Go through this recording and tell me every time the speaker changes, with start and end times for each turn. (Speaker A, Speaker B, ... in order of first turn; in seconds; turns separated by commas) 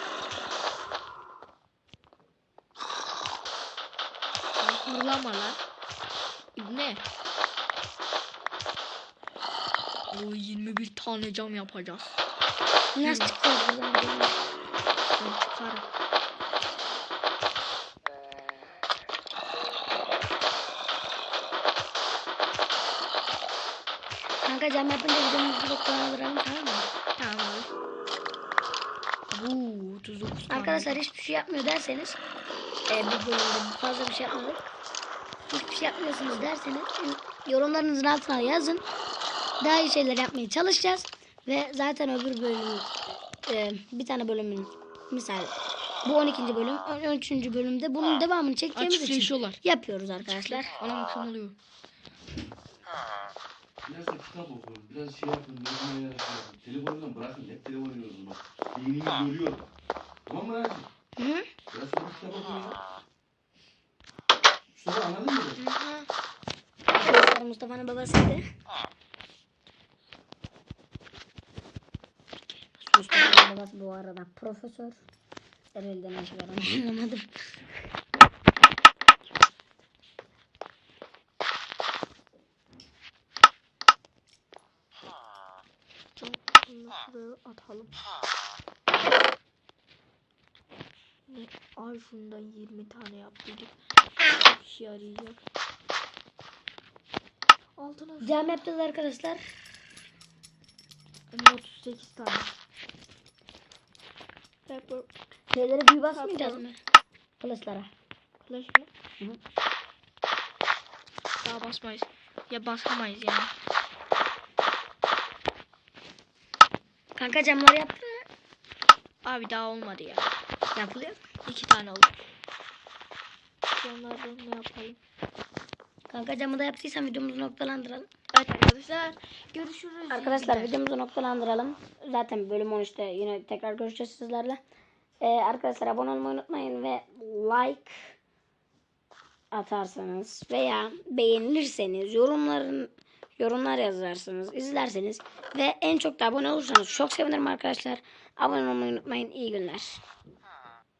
Speaker A: 4.6-5.6, Speaker A: 6.5-7.0, Speaker A: 10.1-12.2, Speaker B: 12.9-14.4, Speaker A: 13.0-13.3, Speaker A: 15.2-15.8, Speaker B: 24.4-26.9, Speaker A: 27.1-27.7, Speaker A: 29.3-31.0, Speaker B: 30.5-32.2, Speaker B: 32.9-34.7, Speaker B: 35.5-38.8, Speaker B: 39.6-42.9, Speaker B: 43.5-50.7, Speaker A: 48.7-49.6, Speaker A: 50.2-51.6, Speaker C: 53.8-59.6, Speaker C: 60.2-60.9, Speaker B: 61.2-61.5, Speaker C: 61.7-62.8, Speaker C: 64.7-65.6, Speaker A: 65.6-66.1, Speaker B: 66.9-68.4, Speaker B: 72.8-75.0, Speaker B: 75.7-77.4, Speaker A: 86.2-88.0, Speaker A: 91.3-95.4, Speaker A: 97.8-98.5, Speaker B: 98.2-99.4, Speaker A: 101.3-102.5, Speaker A: 104.7-105.1, Speaker B: 105.5-106.8, Speaker A: 106.1-106.6, Speaker B: 107.4-107.9, Speaker A: 108.4-108.9, Speaker A: 111.4-113.5, Speaker B: 117.2-118.2, Speaker A: 119.2-120.3, Speaker B: 120.7-121.2, Speaker A: 121.4-122.2, Speaker A: 123.7-125.0, Speaker B: 126.1-128.1, Speaker A: 128.3-130.7, Speaker B: 130.1-134.6, Speaker B: 135.2-138.1, Speaker B: 139.5-150.0